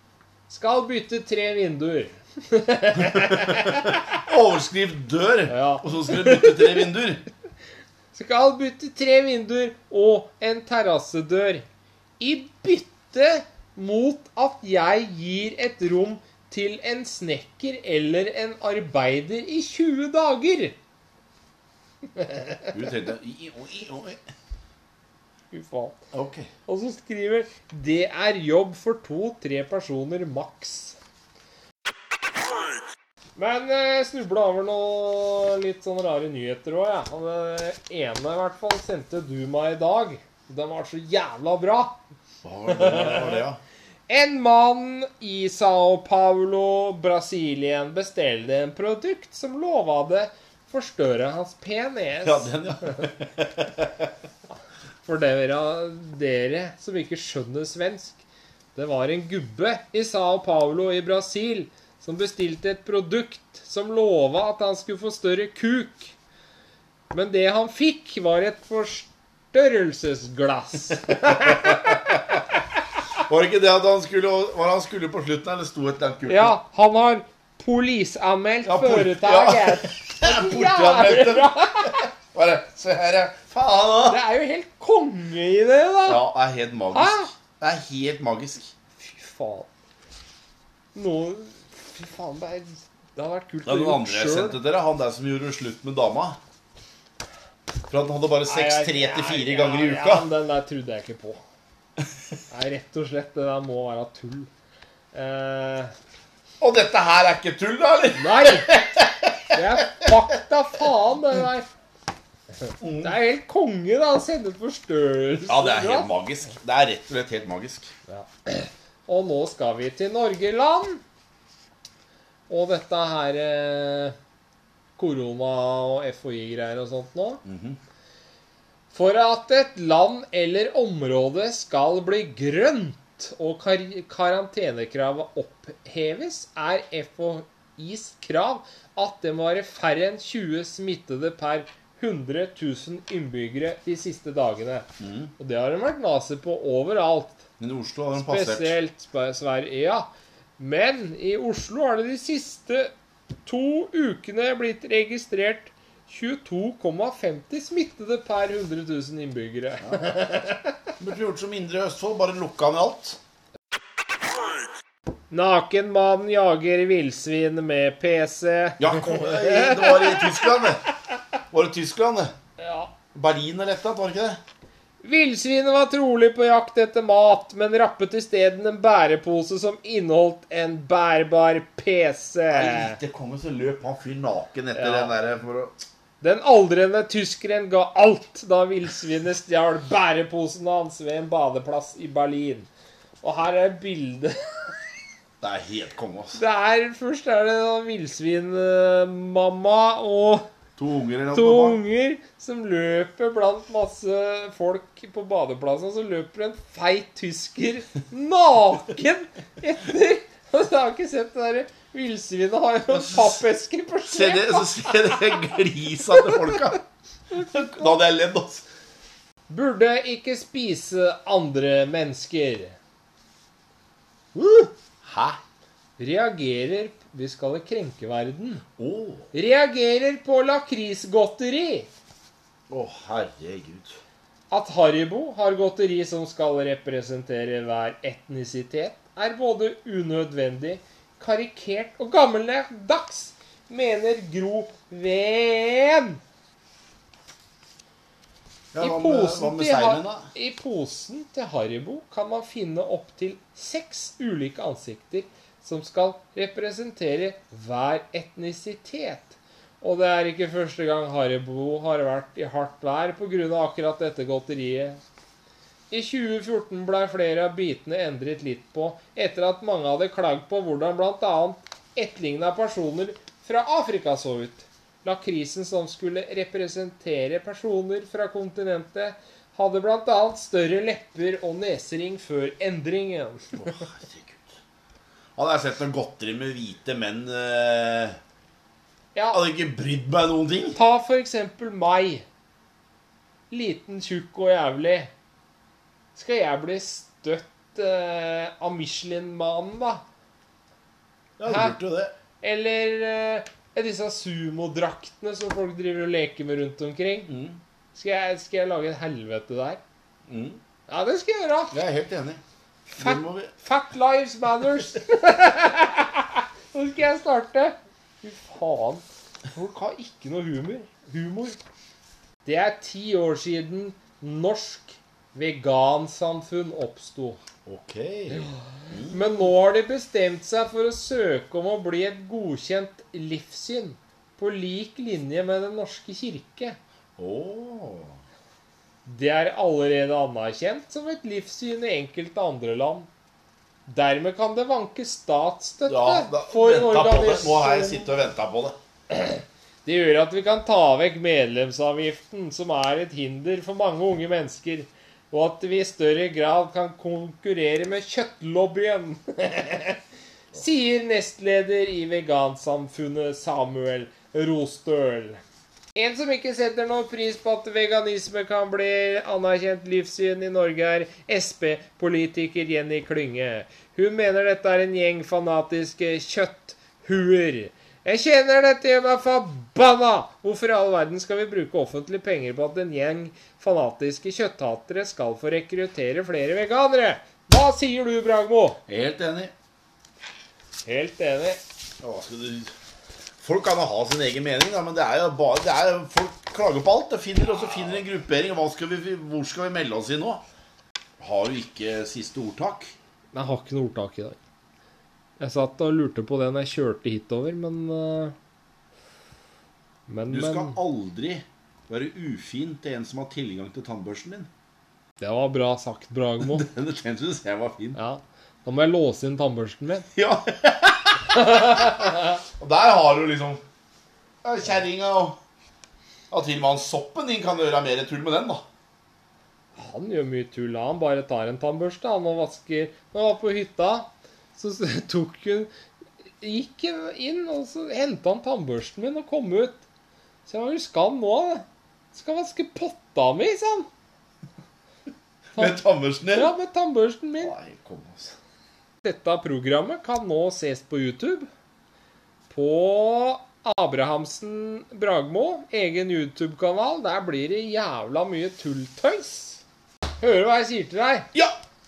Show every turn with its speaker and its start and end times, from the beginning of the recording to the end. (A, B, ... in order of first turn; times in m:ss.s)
0:00.5-0:04.1 A
0:03.1-0:07.2 B
0:05.5-0:06.9 A
0:08.1-0:11.6 A
0:12.2-0:20.8 A
0:22.2-0:22.7 A
0:22.7-0:24.2 B
0:25.5-0:26.0 A
0:26.1-0:26.5 B
0:26.7-0:31.0 A
0:33.4-0:42.0 A
0:42.4-0:43.6 B
0:42.7-0:43.4 A
0:44.1-0:53.1 A
0:52.2-0:54.1 B
0:55.0-0:58.2 A
0:58.8-1:06.2 A
1:07.1-1:12.4 A
1:11.3-1:12.2 B
1:13.2-1:16.6 B
1:16.3-1:22.1 A
1:18.7-1:24.2 B
1:24.1-1:26.2 A
1:26.0-1:28.7 B
1:26.9-1:27.3 A
1:29.0-1:29.7 A
1:31.0-1:34.6 A
1:33.6-1:36.4 B
1:37.9-1:40.3 B
1:38.5-1:41.4 A
1:42.5-1:44.5 A
1:45.1-1:45.9 A
1:46.6-1:50.1 B
1:48.2-1:48.8 A
1:49.5-1:51.7 A
1:52.8-1:53.2 B
1:53.0-1:56.1 A
1:55.5-1:57.9 B
1:58.1-2:01.0 A
2:02.5-2:04.2 A
2:05.0-2:07.4 A
2:07.4-2:07.8 B
2:08.9-2:24.9 A
2:25.0-2:25.3 B
2:25.4-2:27.4 A
2:27.6-2:28.8 B
2:28.2-2:30.1 A
2:30.6-2:32.9 A
2:33.5-2:40.8 A
2:39.8-2:40.1 B
2:41.0-2:43.2 B
2:45.3-2:50.6 A
2:48.8-2:50.8 B
2:51.5-2:52.3 B
2:52.6-2:52.9 A
2:53.1-2:54.4 B
2:55.0-3:03.0 A
3:02.5-3:05.8 B
3:04.7-3:05.2 A
3:06.2-3:12.7 A
3:13.2-3:14.8 A
3:15.4-3:16.4 B
3:16.3-3:20.4 A
3:20.8-3:21.8 B
3:21.3-3:35.4 A
3:32.9-3:33.4 B
3:34.1-3:36.8 B
3:36.1-3:36.7 A
3:37.3-3:38.7 B
3:39.5-3:42.8 A
3:44.4-3:44.7 A
3:45.0-3:45.4 B
3:46.0-3:48.6 A
3:48.8-3:49.2 B
3:49.3-3:51.9 A
3:52.7-3:54.0 B
3:54.5-4:06.2 A
4:08.7-4:10.3 B
4:08.8-4:25.0 A
4:25.9-4:43.7 A
4:43.5-4:44.6 B
4:45.4-4:48.2 B
4:49.2-4:49.4 A
4:49.3-4:50.8 B
4:50.8-4:52.2 A
4:53.5-4:55.1 A
4:56.2-5:00.0 A
5:01.4-5:02.1 B
5:01.5-5:01.8 A
5:02.4-5:07.3 A
5:07.3-5:07.6 B
5:08.0-5:09.8 A
5:10.3-5:10.6 B
5:10.9-5:11.7 A
5:11.7-5:12.4 B
5:12.9-5:13.5 B
5:13.0-5:21.6 A
5:22.4-5:27.4 A
5:27.7-5:29.2 B
5:29.1-5:36.8 A
5:37.2-5:38.2 B
5:39.0-5:43.1 A
5:43.9-5:48.1 A
5:45.9-5:48.8 B
5:49.1-6:00.0 A
6:00.5-6:05.4 A
6:06.0-6:28.8 A
6:28.9-6:29.5 B
6:30.8-6:31.6 A
6:32.0-6:32.7 B
6:33.4-6:40.4 B
6:41.2-6:42.9 B
6:43.3-6:44.4 A
6:45.4-6:48.4 A
6:50.1-6:50.8 A
6:50.3-6:54.5 B
6:55.2-6:56.7 A
6:56.4-6:58.0 B
6:58.0-7:00.1 A
7:00.2-7:03.6 B
7:01.4-7:02.4 A
7:04.4-7:05.4 B
7:06.3-7:08.6 B
7:09.8-7:15.7 A
7:16.4-7:19.8 A
7:20.5-7:23.9 A
7:25.6-7:26.5 B
7:25.6-7:27.5 A
7:27.4-7:28.3 B
7:29.0-7:31.5 A
7:32.5-7:39.6 A
7:40.2-7:41.3 A